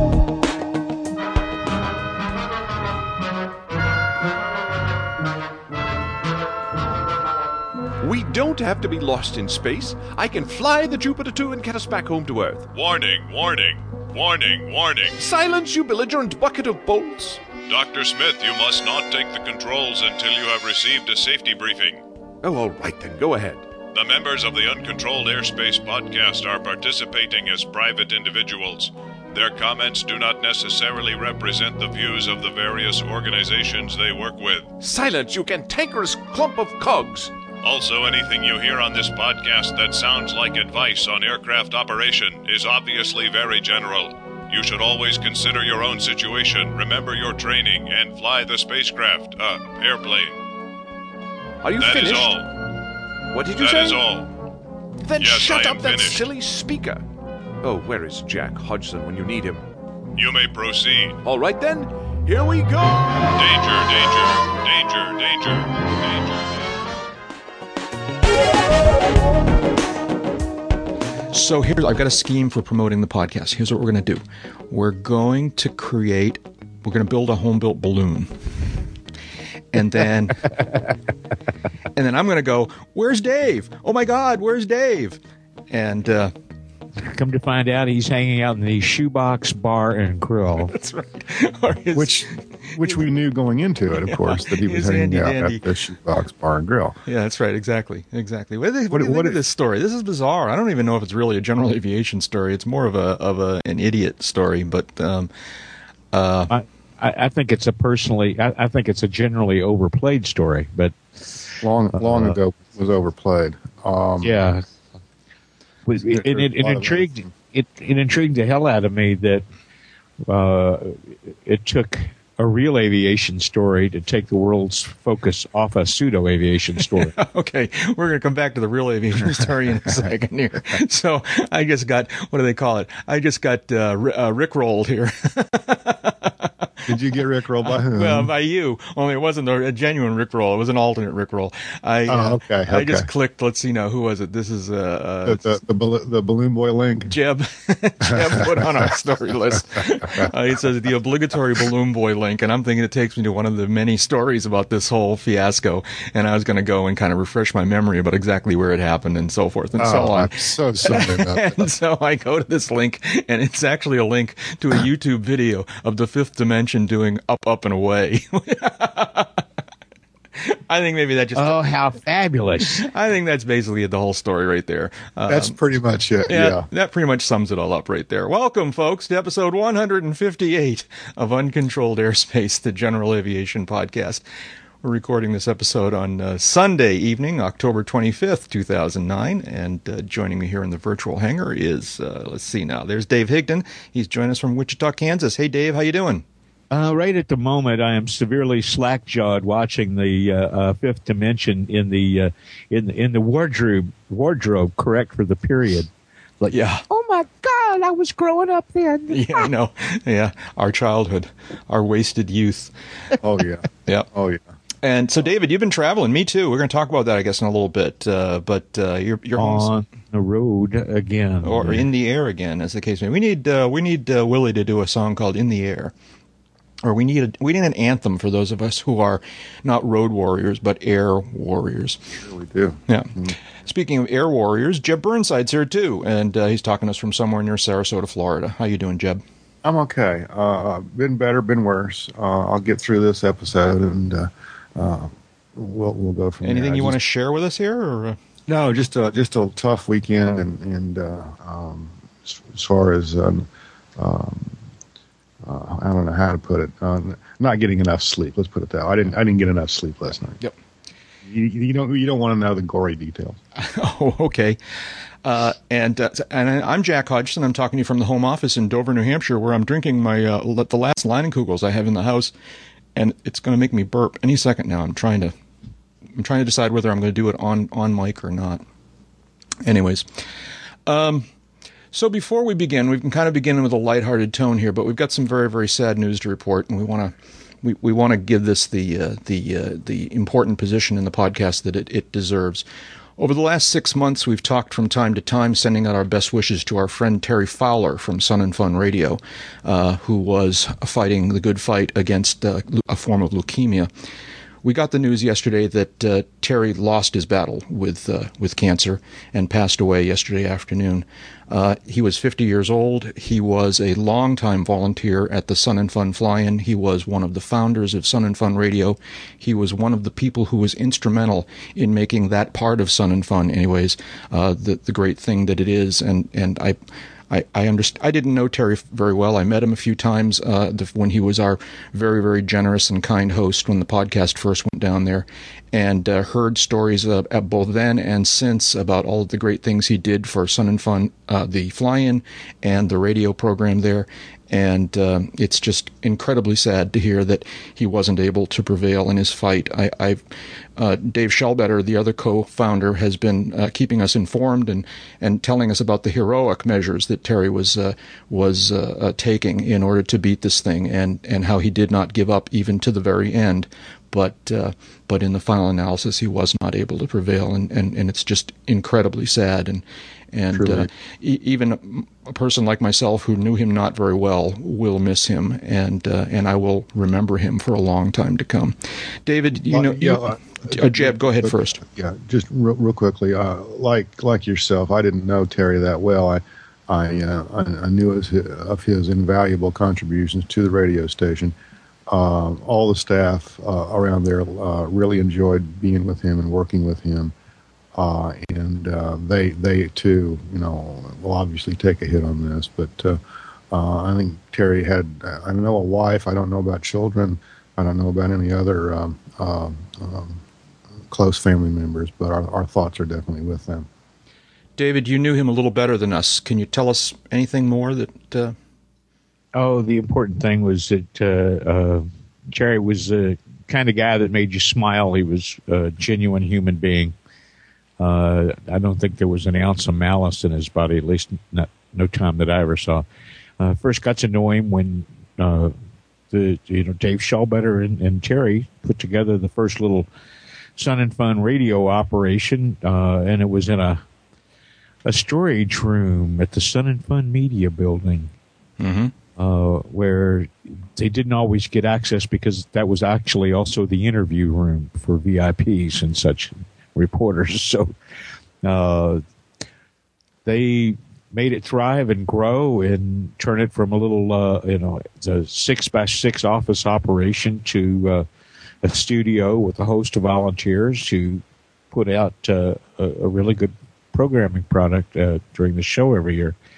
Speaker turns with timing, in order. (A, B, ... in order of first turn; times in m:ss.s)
0:08.0-0:12.7 A
0:12.7-0:15.2 B
0:15.2-0:17.4 A
0:17.6-0:22.0 B
0:22.4-0:23.7 A
0:23.9-0:34.7 B
0:34.8-0:37.3 A
0:37.6-0:50.4 B
0:51.6-0:52.4 A
0:51.7-0:52.5 B
0:53.3-0:54.1 A
0:53.5-0:54.3 B
0:55.0-0:57.0 A
0:55.2-0:56.3 B
0:57.6-0:59.6 A
1:00.1-1:01.2 B
1:01.2-1:03.1 A
1:03.3-1:06.7 B
1:11.3-1:18.3 C
1:19.7-1:20.5 C
1:21.9-1:26.3 C
1:27.0-1:30.7 D
1:30.6-1:32.9 C
1:31.9-1:37.0 E
1:34.0-1:35.6 C
1:37.0-1:45.3 C
1:38.9-1:39.4 E
1:46.1-1:46.5 C
1:46.5-1:51.5 D
1:51.6-1:54.3 E
1:52.0-1:52.3 D
1:54.2-1:54.6 D
1:55.8-1:59.4 D
1:56.0-1:57.3 E
2:00.3-2:07.1 D
2:07.0-2:16.9 C
2:16.9-2:18.3 E
2:17.6-2:25.5 C
2:22.1-2:23.1 E
2:25.2-2:27.1 E
2:27.1-2:49.4 C
2:28.0-2:28.9 E
2:29.5-2:30.3 E
2:39.8-2:41.7 E
2:50.4-2:51.7 C
2:51.3-2:52.8 D
2:52.7-2:55.6 C
2:55.3-2:56.6 E
2:56.3-3:04.2 C
3:04.8-3:16.2 C
3:16.7-3:25.9 D
3:26.4-3:29.5 D
3:26.5-3:26.8 C
3:29.1-3:32.7 C
3:33.2-3:34.4 E
3:34.8-3:39.7 C
3:39.4-3:41.9 D
3:41.4-3:45.9 C
3:46.8-3:52.0 C
3:52.1-3:53.4 E
3:52.9-3:59.2 C
3:59.6-4:07.0 E
4:06.4-4:08.2 C
4:08.5-4:14.6 E
4:15.4-4:20.4 E
4:21.2-4:23.4 E
4:23.5-4:24.6 C
4:25.2-4:32.3 C
4:32.9-4:35.3 C
4:36.2-4:38.6 C
4:39.6-4:40.1 C
4:40.8-4:41.2 C
4:41.9-4:52.6 C
4:53.2-5:03.9 C
5:04.6-5:26.8 C
5:27.3-5:50.2 C
5:50.8-6:21.8 C
6:10.5-6:10.9 E
6:19.5-6:31.5 E
6:32.1-6:37.3 E
6:37.9-6:43.2 E
6:43.7-6:50.4 E
6:51.1-6:53.9 E
6:54.8-6:58.6 C
6:59.5-7:07.1 D
7:08.0-7:13.0 D
7:13.6-7:15.8 D
7:16.3-7:20.1 D
7:20.8-7:24.0 D
7:25.0-7:28.3 D
7:28.8-7:29.1 C
7:29.4-7:37.9 D
7:38.6-7:39.2 D
7:40.4-7:48.2 D
7:48.8-7:56.6 D